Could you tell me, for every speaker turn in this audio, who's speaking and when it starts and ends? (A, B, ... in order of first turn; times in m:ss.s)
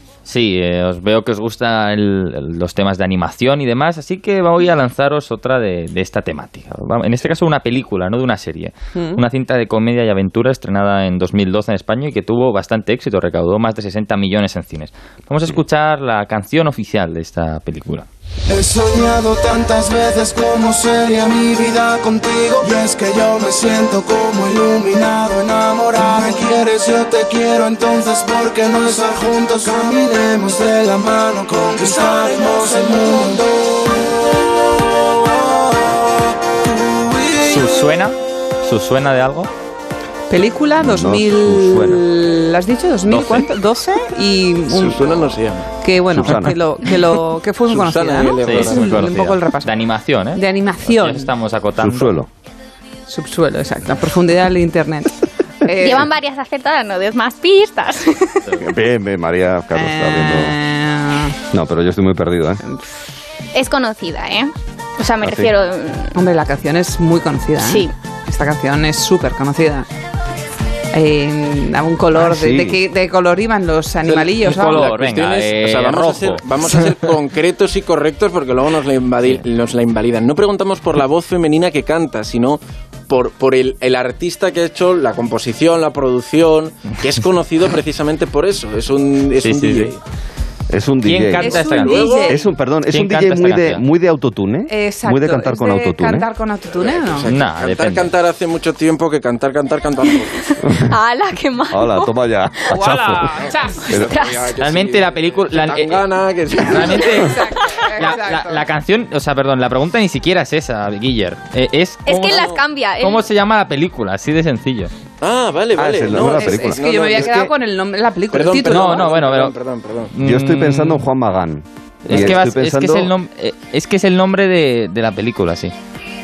0:00.2-0:18.1 A
0:08.9-0:09.2 B
0:18.5-0:33.8 C
0:37.4-0:39.5 A
0:40.3-0:45.1 B
0:40.8-0:42.0 D
0:43.1-0:43.4 A
0:44.8-0:45.7 E
0:45.8-0:49.7 B
0:46.1-0:46.6 D
0:47.7-0:49.1 E
0:48.4-0:52.1 A
0:50.3-0:51.3 B
0:51.8-0:52.3 D
0:53.1-0:56.1 B
0:55.8-0:58.4 F
0:58.6-1:00.5 D
0:59.7-1:01.4 B
1:01.5-1:02.6 D
1:03.5-1:06.2 F
1:05.2-1:05.5 D
1:06.1-1:09.9 B
1:07.6-1:07.9 F
1:10.9-1:14.9 B
1:12.1-1:12.8 D
1:14.0-1:30.0 E
1:14.4-1:16.8 A
1:29.4-1:29.9 A
1:30.7-1:31.6 D
1:31.0-1:32.2 A
1:31.4-1:32.4 B
1:31.8-1:32.3 E
1:32.3-1:36.3 D
1:32.9-1:33.8 A
1:34.7-1:37.3 B
1:36.7-1:40.3 E
1:37.3-1:38.1 A
1:40.7-1:42.1 F
1:41.7-1:44.1 D
1:42.7-1:43.9 B
1:43.9-1:47.1 E
1:43.9-1:44.5 F
1:44.6-1:47.4 A
1:46.8-1:48.7 B
1:48.0-1:54.9 A
1:52.0-1:53.2 F
1:52.2-1:52.6 E
1:55.2-1:57.5 E
1:55.8-1:57.5 D
1:56.1-1:59.1 B
1:58.3-2:00.1 E
1:58.7-1:59.5 A
2:00.1-2:01.0 A
2:00.2-2:03.1 D
2:02.0-2:05.7 A